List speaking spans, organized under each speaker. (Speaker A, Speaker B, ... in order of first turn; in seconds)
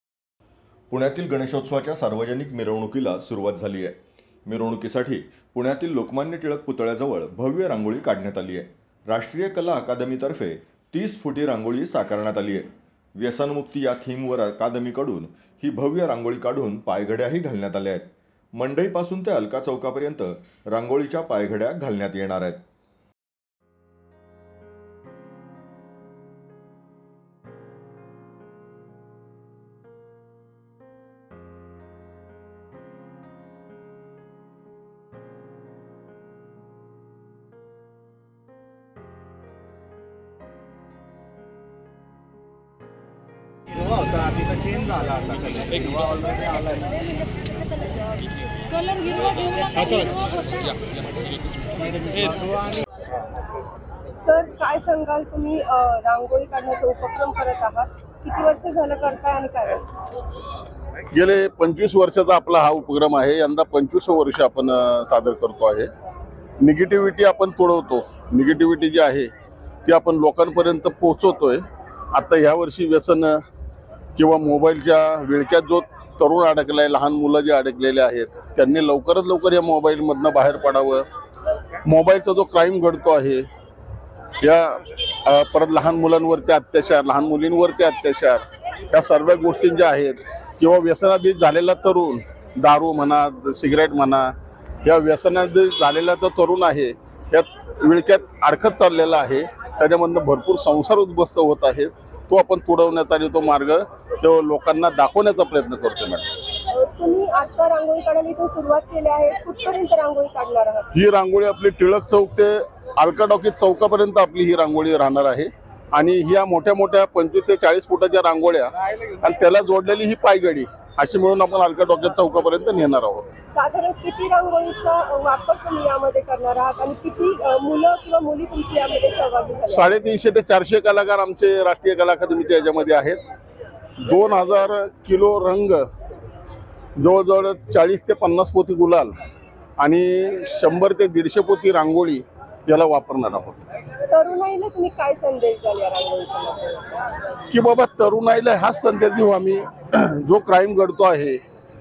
Speaker A: 0.9-22.6
Speaker B: 54.2-59.9, 106.7-110.9, 123.5-129.9, 144.1-147.1
Speaker C: 61.1-65.9, 66.6-69.3, 69.8-73.4, 74.2-81.1, 81.8-83.5, 84.4-94.3, 94.8-106.2, 110.9-123.3, 129.7-133.2, 134.0-135.9, 137.0-139.2, 139.8-143.6, 147.5-151.4